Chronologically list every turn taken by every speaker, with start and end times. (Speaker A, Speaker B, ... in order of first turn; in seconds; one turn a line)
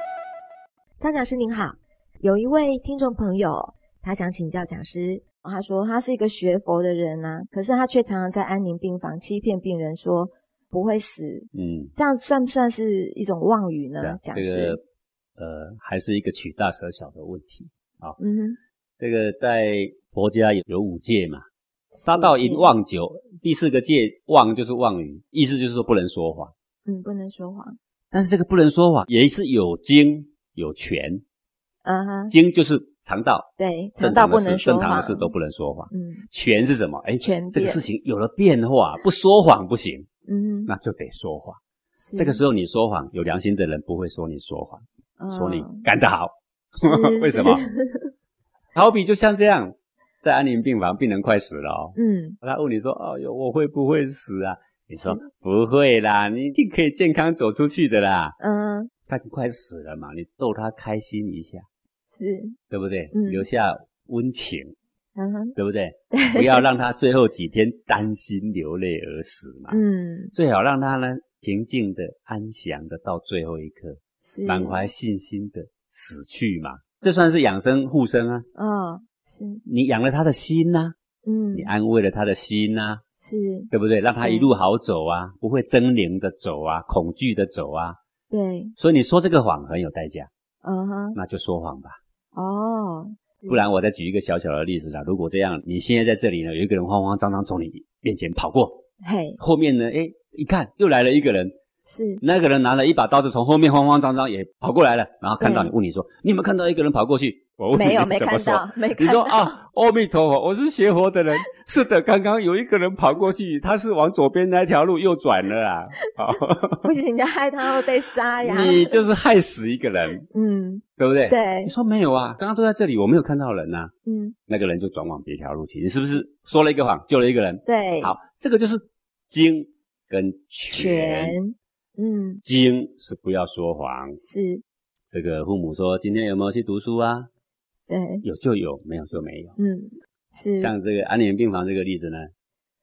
Speaker A: 1.0-14.8
Speaker B: 11.5-11.9
Speaker B: 14.0-14.8
Speaker B: 15.4-18.2
Speaker A: 18.2-18.6
Speaker B: 19.0-21.4
Speaker A: 21.9-22.7
Speaker B: 22.0-26.5
Speaker A: 26.9-27.8
Speaker B: 28.1-31.2
Speaker A: 31.8-32.3
Speaker B: 32.3-33.5
Speaker A: 33.6-35.3
Speaker B: 34.0-40.1
Speaker A: 35.9-36.2
Speaker A: 37.2-37.8
Speaker A: 40.3-40.7
Speaker B: 40.6-41.6
Speaker A: 42.0-42.4
Speaker B: 42.1-47.6
Speaker A: 45.2-45.8
Speaker A: 46.8-48.1
Speaker B: 48.7-58.4
Speaker A: 52.0-52.4
Speaker A: 58.4-58.9
Speaker B: 59.0-61.7
Speaker A: 62.1-62.6
Speaker B: 62.7-64.8
Speaker A: 63.1-63.5
Speaker A: 65.2-65.5
Speaker B: 65.5-69.8
Speaker A: 66.1-66.7
Speaker A: 69.7-70.3
Speaker B: 70.3-78.5
Speaker A: 74.2-74.8
Speaker A: 78.5-79.6
Speaker B: 79.6-81.0
Speaker A: 81.2-81.7
Speaker B: 81.5-83.0
Speaker A: 83.2-83.7
Speaker B: 83.7-88.0
Speaker A: 84.2-84.5
Speaker A: 88.3-88.7
Speaker B: 88.8-90.3
Speaker A: 90.6-91.2
Speaker B: 91.1-92.0
Speaker A: 92.3-93.6
Speaker B: 93.5-98.8
Speaker A: 99.0-99.4
Speaker B: 99.4-101.5
Speaker A: 101.8-102.2
Speaker B: 102.2-116.9
Speaker A: 105.4-105.7
Speaker A: 107.7-109.6
Speaker A: 116.8-119.0
Speaker B: 118.4-120.2
Speaker A: 120.3-121.7
Speaker B: 120.9-123.9
Speaker A: 124.0-124.3
Speaker B: 124.5-131.4
Speaker A: 127.7-128.1
Speaker A: 130.7-132.4
Speaker B: 132.4-134.2
Speaker A: 134.2-134.6
Speaker B: 135.1-137.3
Speaker A: 137.9-138.2
Speaker B: 138.2-139.6
Speaker A: 139.6-140.7
Speaker B: 140.6-142.3